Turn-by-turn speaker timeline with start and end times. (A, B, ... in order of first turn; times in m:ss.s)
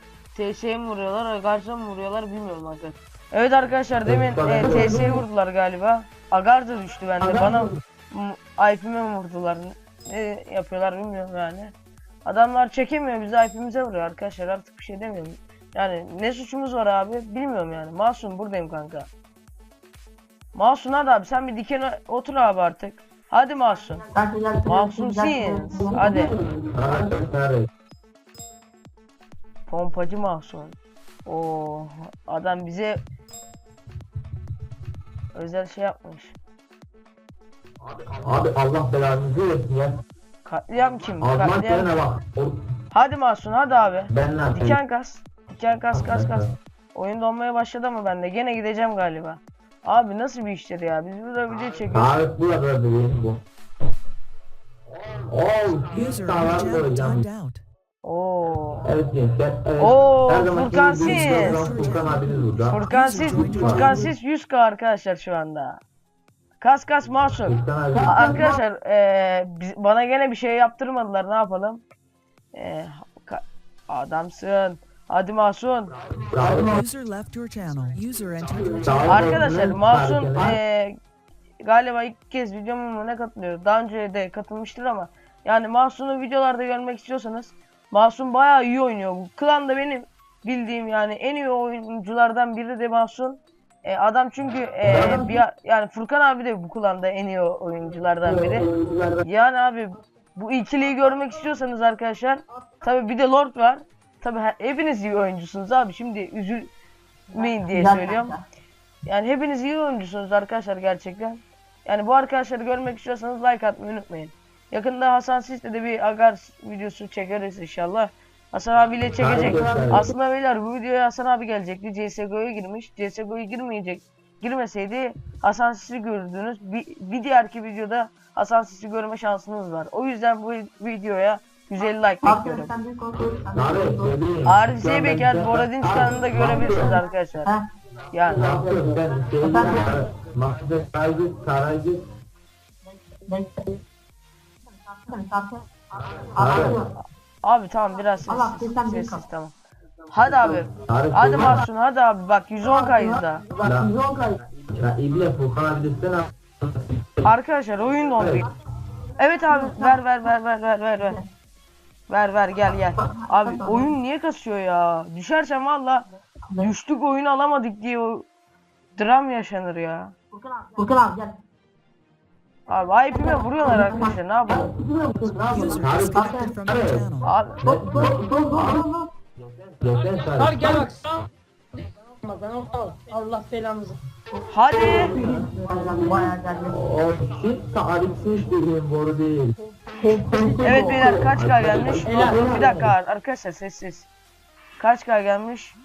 0:00.3-0:11.7 A
0:04.1-0:05.1 B
0:12.2-0:19.1 A
0:20.5-0:24.0 A
0:23.9-0:26.4 C
0:24.6-0:26.3 A
0:26.7-0:27.7 B
0:29.7-0:33.0 A
0:35.3-0:36.4 A
0:37.8-0:40.0 B
0:40.4-0:41.9 A
0:41.0-0:42.6 B
0:42.9-0:52.1 A
0:44.1-0:44.8 B
0:45.9-0:46.5 B
0:51.8-0:53.4 B
0:55.2-0:57.2 B
0:55.9-0:57.6 D
0:58.0-0:58.9 A
0:58.8-1:02.8 B
0:59.8-1:01.7 A
1:01.0-1:04.1 D
1:02.7-1:05.8 A
1:03.4-1:03.9 B
1:06.6-1:11.8 A
1:07.4-1:08.2 B
1:07.9-1:08.5 C
1:12.5-1:15.9 A
1:16.3-1:16.8 B
1:16.4-1:19.2 D
1:18.8-1:20.6 B
1:19.0-1:21.0 A
1:21.6-1:38.7 A
1:34.9-1:35.3 B
1:38.3-1:39.2 B
1:39.2-1:46.7 A
1:47.3-1:48.3 A
1:47.3-1:48.4 C
1:49.0-2:12.7 A
1:59.1-2:00.1 B
2:12.2-2:14.2 C
2:13.5-2:17.0 B
2:14.4-2:17.5 A
2:16.2-2:17.6 C
2:18.1-2:18.5 A
2:18.3-2:22.0 B
2:18.6-2:20.0 C
2:22.9-2:23.8 C
2:24.7-2:26.9 C
2:26.0-2:26.8 B
2:27.4-2:29.5 A
2:28.1-2:29.2 C
2:30.1-2:33.4 A
2:30.8-2:31.6 B
2:32.6-2:34.4 C
2:33.6-2:37.3 B
2:37.2-2:38.5 A
2:38.2-2:38.4 B
2:39.2-2:41.2 A
2:39.4-2:40.1 C
2:41.0-2:41.2 C
2:42.1-2:46.1 A
2:43.0-2:43.9 C
2:46.6-2:48.2 A
2:49.0-2:50.1 A
2:50.3-2:51.3 C
2:52.7-2:54.7 A
2:53.1-2:56.6 C
2:55.3-2:57.1 B
2:55.5-2:57.3 D
2:57.2-2:57.6 A
2:57.6-2:58.8 B
2:57.6-2:59.1 C
2:59.4-3:00.9 B
2:59.9-3:04.0 E
3:04.5-3:05.2 A
3:04.7-3:06.8 C
3:04.8-3:09.5 B
3:10.0-3:11.2 C
3:10.6-3:14.1 A
3:11.3-3:12.8 B
3:12.0-3:12.8 E
3:14.8-3:15.7 A